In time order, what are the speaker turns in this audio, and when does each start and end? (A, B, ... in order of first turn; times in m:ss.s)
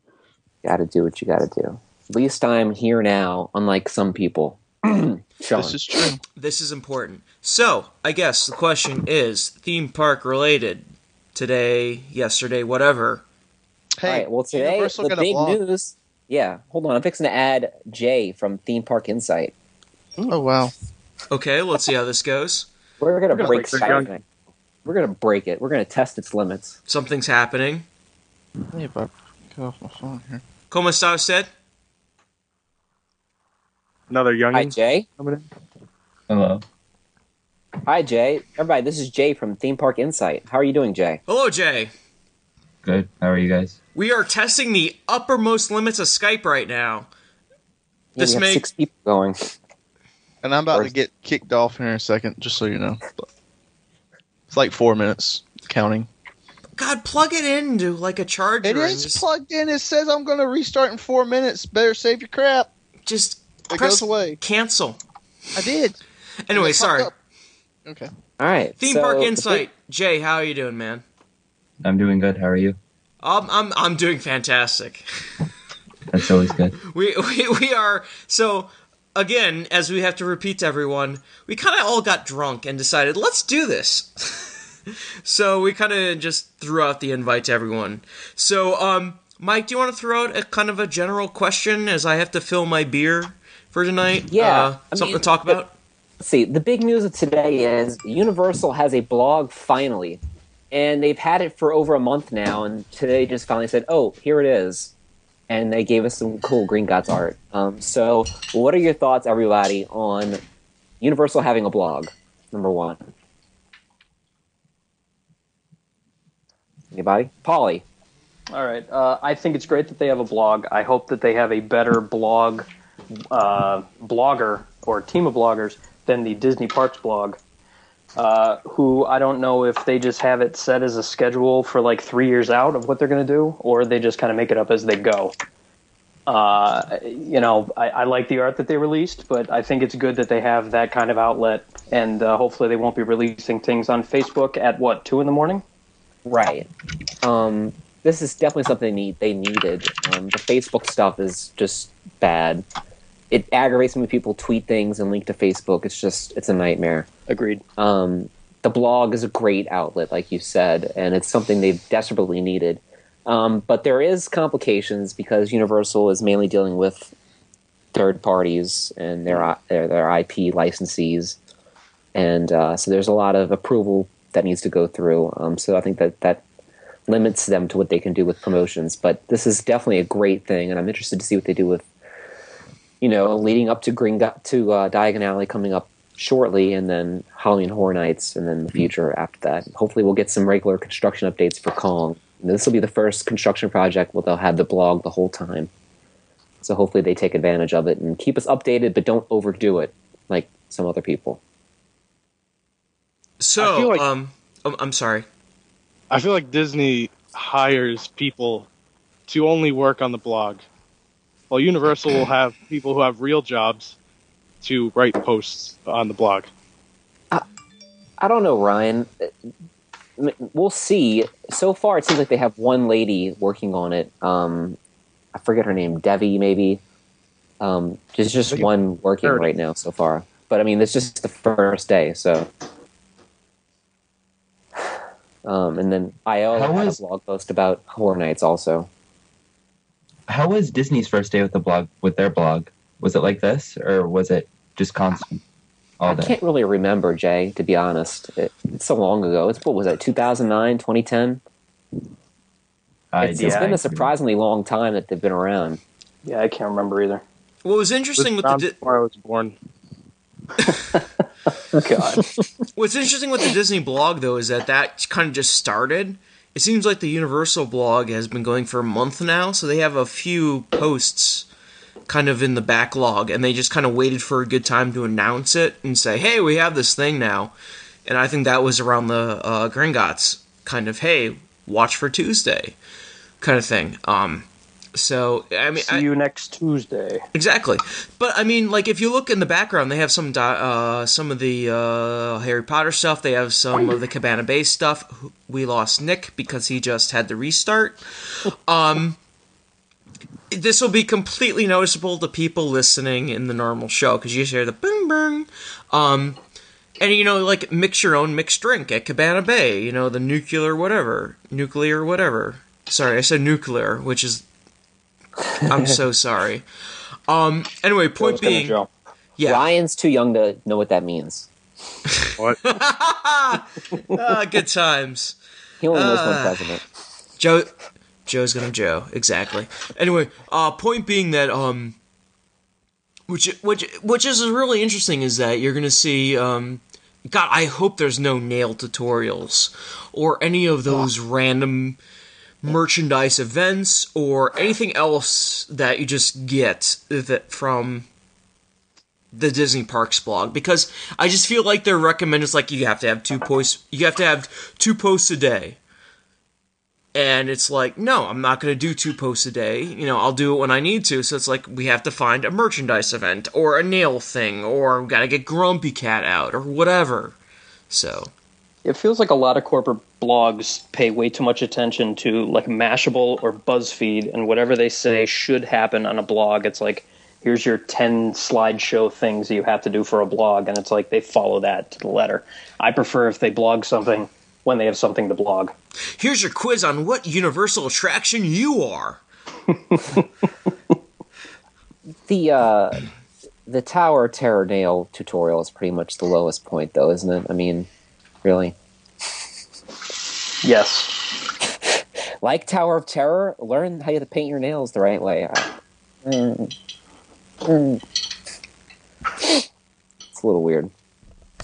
0:00.6-0:05.8 A
0:05.6-0:06.2 B
0:06.4-0:13.2 C
0:14.0-0:15.6 B
0:14.0-0:19.5 A
0:20.3-0:20.7 B
0:21.3-0:22.7 C
0:23.0-0:24.2 A
0:23.3-0:24.1 D
0:23.4-0:24.0 E
0:24.8-0:26.8 A
0:26.9-0:27.9 C
0:28.7-0:30.4 B
0:30.7-0:31.5 C
0:34.1-0:35.5 D
0:34.5-0:35.1 A
0:36.3-0:36.6 F
0:37.9-0:41.2 A
0:41.3-0:41.9 C
0:42.8-0:43.8 F
0:44.0-0:47.1 C
0:48.2-0:49.4 A
0:48.2-0:48.7 C
0:50.4-0:53.1 B
0:54.5-0:56.1 B
0:56.8-0:59.3 C
0:58.6-1:02.7 B
1:03.1-1:05.0 C
1:03.7-1:04.4 B
1:05.6-1:06.0 B
1:06.5-1:07.1 C
1:06.5-1:07.1 B
1:08.4-1:09.7 A
1:08.8-1:11.0 C
1:11.8-1:12.8 F
1:13.2-1:15.0 C
1:16.1-1:16.8 F
1:16.8-1:24.5 C
1:25.2-1:35.7 C
1:34.3-1:35.6 A
1:36.2-1:44.9 A
1:45.5-1:50.4 A
1:51.0-1:53.0 A
1:56.9-1:57.8 A
1:58.5-2:02.7 E
2:03.3-2:07.4 E
2:08.2-2:15.4 E
2:16.3-2:25.6 E
2:26.3-2:26.7 A
2:27.2-2:32.6 A
2:33.3-2:37.1 A
2:37.3-2:37.6 E
2:37.8-2:47.1 A
2:47.9-2:51.4 A
2:52.1-2:56.4 A
2:57.1-3:01.8 A
3:03.0-3:15.7 A
3:16.6-3:21.4 A
3:23.4-3:25.3 C
3:23.6-3:24.0 D
3:26.1-3:28.7 D
3:29.3-3:30.6 D
3:31.5-3:34.0 D
3:34.6-3:36.5 D
3:38.2-3:39.3 A
3:40.2-3:44.8 A
3:45.3-3:46.8 A
3:47.6-3:52.5 A
3:55.4-3:58.9 A
3:56.5-3:57.0 F
4:00.3-4:05.4 F
4:06.0-4:06.4 F
4:06.1-4:11.4 A
4:13.1-4:14.1 F
4:13.2-4:15.8 A
4:13.3-4:13.7 E
4:16.2-4:17.2 E
4:17.6-4:18.8 C
4:18.2-4:19.6 D
4:21.7-4:22.3 E
4:22.8-4:31.5 C
4:32.1-4:37.5 C
4:38.1-4:42.8 C
4:43.4-4:46.0 C
4:45.8-4:47.2 E
4:47.3-4:59.2 C
5:00.5-5:06.4 C
5:07.0-5:14.4 C
5:15.6-5:16.6 C
5:15.7-5:16.0 A
5:17.3-5:18.8 C
5:18.2-5:18.9 E
5:19.4-5:19.7 C
5:19.4-5:21.5 A
5:22.2-5:25.4 C
5:25.8-5:26.8 A
5:25.9-5:26.6 C
5:27.4-5:27.7 C
5:28.3-5:32.0 C
5:33.3-5:42.0 C
5:42.6-5:48.1 C
5:49.3-5:55.8 C
5:57.1-6:07.4 C
6:07.9-6:08.3 C
6:08.8-6:25.7 E
6:26.2-6:29.2 C
6:29.9-6:30.2 E
6:32.3-6:33.0 A
6:33.7-6:37.9 A
6:38.4-6:38.8 A
6:40.6-6:41.3 E
6:42.4-6:45.7 A
6:46.2-6:46.7 A
6:47.6-6:48.0 A
6:50.3-6:50.9 A